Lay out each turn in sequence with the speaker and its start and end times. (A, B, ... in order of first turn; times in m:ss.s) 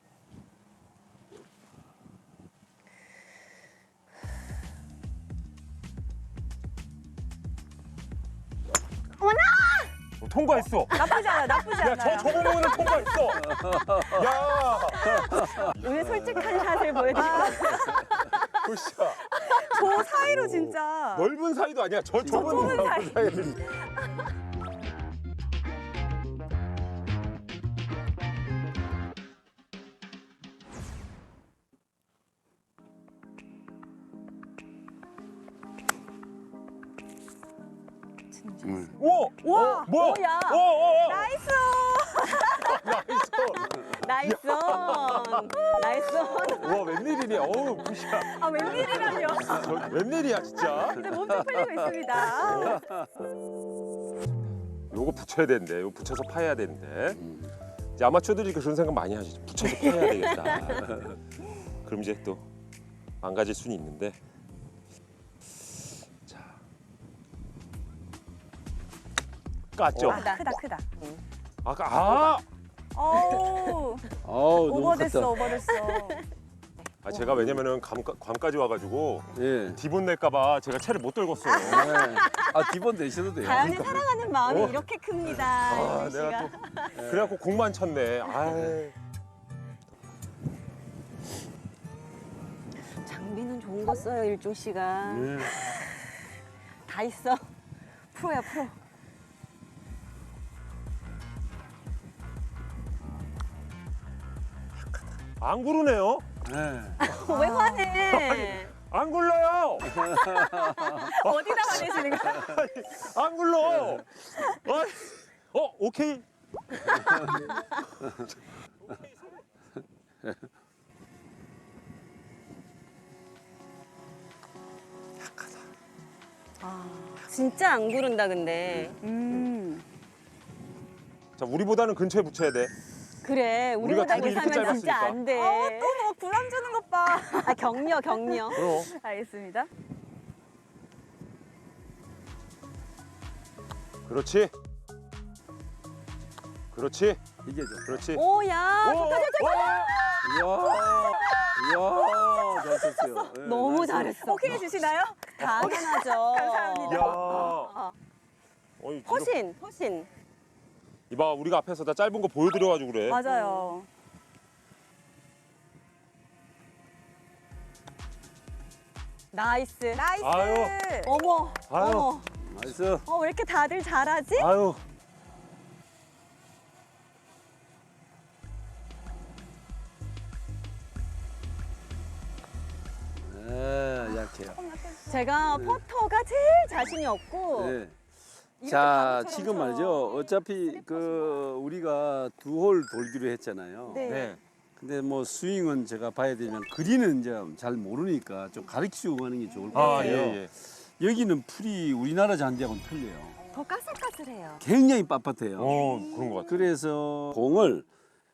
0:09.2-0:09.9 A
0:10.2-0:17.9 B
0:10.6-0:13.0 C
0:13.5-0:14.1 D
0:15.0-0:18.5 A
0:15.2-0:15.7 D
0:17.1-0:18.0 C
0:18.5-0:23.6 B
0:19.4-0:21.3 C
0:22.2-0:23.6 D
0:22.3-0:23.3 C
0:38.4-0:38.9 C
0:38.6-0:39.0 D
0:39.0-0:41.3 B
0:39.4-0:39.9 C
0:39.9-0:40.7 A
0:41.0-0:42.7 C
0:42.4-0:42.6 A
0:42.6-0:45.5 B
0:43.6-0:49.9 A
0:46.5-0:51.1 B
0:48.4-0:49.8 C
0:50.6-0:52.8 C
0:51.1-0:53.0 D
0:52.4-0:52.8 B
0:54.9-0:57.2 B
0:57.1-0:57.5 D
0:58.0-1:01.2 B
0:59.6-1:00.9 A
1:01.8-1:02.5 B
1:03.2-1:04.2 B
1:06.3-1:06.6 B
1:09.8-1:10.2 B
1:09.9-1:10.2 D
1:10.1-1:10.8 C
1:10.1-1:11.2 A
1:11.6-1:12.4 B
1:13.0-1:14.1 C
1:13.1-1:13.7 A
1:14.2-1:15.6 D
1:14.6-1:16.2 C
1:17.0-1:22.0 B
1:17.0-1:17.4 A
1:19.4-1:19.8 D
1:21.5-1:21.8 C
1:21.6-1:22.7 A
1:21.6-1:24.1 D
1:23.3-1:27.0 A
1:24.4-1:28.9 B
1:27.0-1:27.4 D
1:33.0-1:36.0 A
1:35.0-1:35.7 D
1:36.8-1:37.5 A
1:38.1-1:38.8 A
1:45.4-1:46.3 B
1:46.4-1:47.0 D
1:47.0-1:48.8 A
1:47.0-1:50.5 B
1:47.2-1:48.0 C
1:49.9-1:50.9 D
1:50.5-1:51.1 A
1:50.9-1:52.6 C
1:51.0-1:56.2 B
1:56.8-1:57.2 B
2:06.6-2:07.2 C
2:07.2-2:09.5 A
2:09.0-2:09.8 C
2:11.4-2:12.7 B
2:13.2-2:16.1 A
2:13.8-2:15.2 B
2:13.9-2:19.7 C
2:17.3-2:18.8 A
2:18.5-2:18.9 B
2:24.1-2:24.5 B
2:26.7-2:27.2 B
2:27.4-2:28.0 D
2:27.8-2:28.2 B
2:28.1-2:34.8 A
2:28.8-2:30.5 B
2:30.2-2:34.3 D
2:34.0-2:37.6 C
2:35.4-2:38.0 A
2:36.8-2:37.7 B
2:38.8-2:39.4 B
2:39.1-2:40.1 A
2:41.1-2:43.2 B
2:43.1-2:43.9 C
2:43.2-2:43.8 A
2:49.3-2:50.1 A
2:50.0-2:51.2 C
2:50.2-2:50.8 B
2:50.9-2:52.3 A
2:51.7-2:52.1 B
2:52.4-2:53.1 D
2:53.0-2:54.5 A
2:54.4-2:54.8 B
3:03.2-3:04.6 D
3:04.0-3:05.3 C
3:05.1-3:07.8 A
3:05.5-3:05.8 D
3:07.5-3:14.1 D
3:08.6-3:11.3 A
3:13.9-3:14.4 A
3:14.0-3:14.4 B
3:14.8-3:23.4 D
3:19.7-3:20.4 A
3:19.7-3:20.5 B
3:23.5-3:24.6 A
3:24.6-3:25.8 D
3:25.6-3:26.7 B
3:25.8-3:26.1 C
3:26.5-3:27.9 D